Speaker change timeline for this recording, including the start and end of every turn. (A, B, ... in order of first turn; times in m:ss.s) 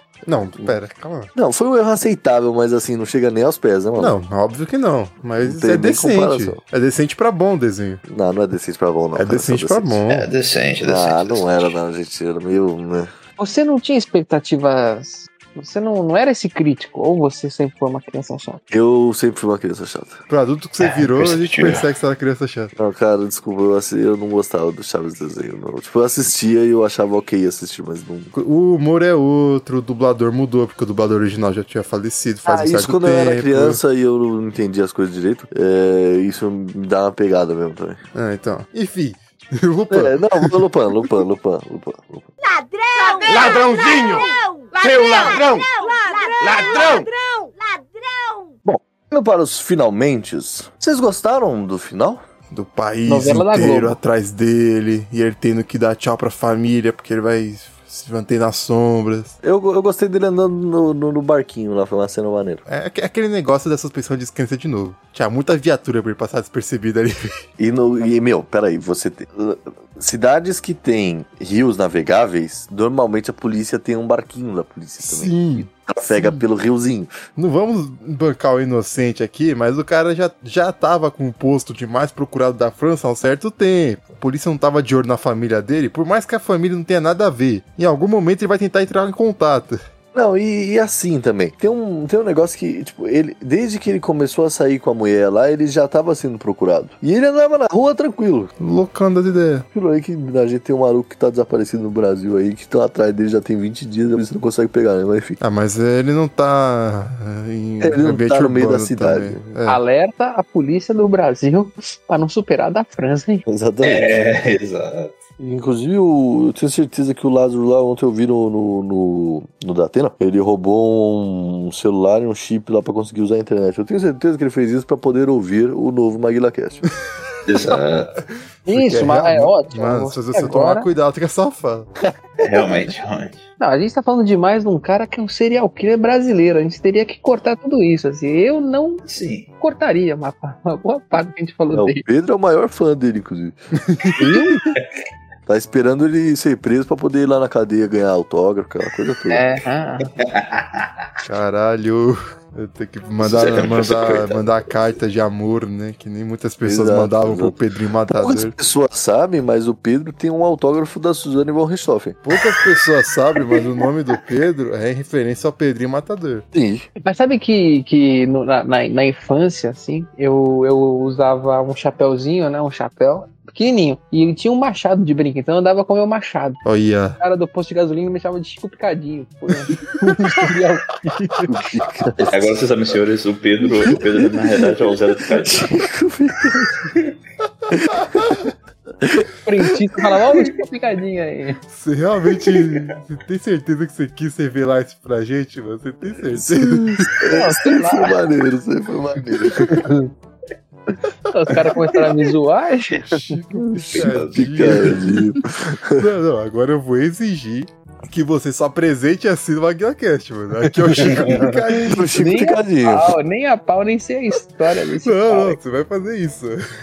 0:00.2-0:01.3 A
0:01.3-0:04.1 B
0:04.0-0:08.0 A
0:05.4-0:06.6 B
0:08.0-0:10.0 B
0:09.1-0:10.3 A
0:10.1-0:11.8 C
0:10.8-0:13.1 B
0:13.4-0:18.6 D
0:18.7-0:20.2 B
0:20.3-0:22.7 A
0:20.8-0:21.9 C
0:22.8-0:28.3 B
0:28.3-0:33.8 A
0:32.4-0:38.0 B
0:38.1-0:40.7 A
0:39.9-0:42.3 B
0:42.4-0:48.6 E
0:48.6-0:52.2 B
0:52.5-0:59.3 A
0:53.0-0:54.0 D
0:59.4-1:02.6 B
1:02.7-1:07.2 A
1:07.6-1:17.1 B
1:15.0-1:16.4 A
1:17.4-1:29.8 A
1:30.1-1:38.5 B
1:38.6-1:39.6 A
1:39.7-1:45.4 B
1:45.4-1:49.8 A
1:47.8-1:49.4 B
1:49.6-1:53.4 D
1:53.5-1:54.3 B
1:53.8-1:55.2 C
1:55.4-2:06.8 B
2:07.4-2:08.2 C
2:08.6-2:11.9 A
2:08.7-2:10.9 D
2:12.0-2:12.9 B
2:12.4-2:13.4 C
2:13.6-2:19.0 D
2:19.0-2:19.5 C
2:19.6-2:22.0 D
2:21.7-2:23.6 B
2:23.8-2:24.2 A
2:24.2-2:24.6 D
2:25.5-2:29.4 B
2:29.3-2:30.1 D
2:30.1-2:31.1 C
2:31.2-2:38.5 A
2:33.2-2:34.6 C
2:36.6-2:37.6 B
2:38.2-2:42.2 B
2:42.2-2:46.4 A
2:46.5-2:46.9 B
2:47.0-2:56.6 D
2:56.6-2:57.2 A
2:57.2-3:01.5 D
3:01.5-3:02.5 B
3:02.2-3:05.8 C
3:04.6-3:06.8 B
3:07.7-3:08.4 B
3:08.0-3:08.5 A
3:09.0-3:09.3 B
3:09.4-3:11.6 D
3:11.7-3:17.2 A
3:16.3-3:19.9 B
3:17.2-3:18.3 D
3:19.2-3:19.8 A
3:19.6-3:20.1 D
3:21.3-3:23.3 D
3:23.1-3:25.1 C
3:23.5-3:26.1 B
3:23.9-3:32.2 A
3:30.9-3:33.1 B
3:31.0-3:31.4 C
3:32.1-3:35.6 D
3:35.0-3:36.6 A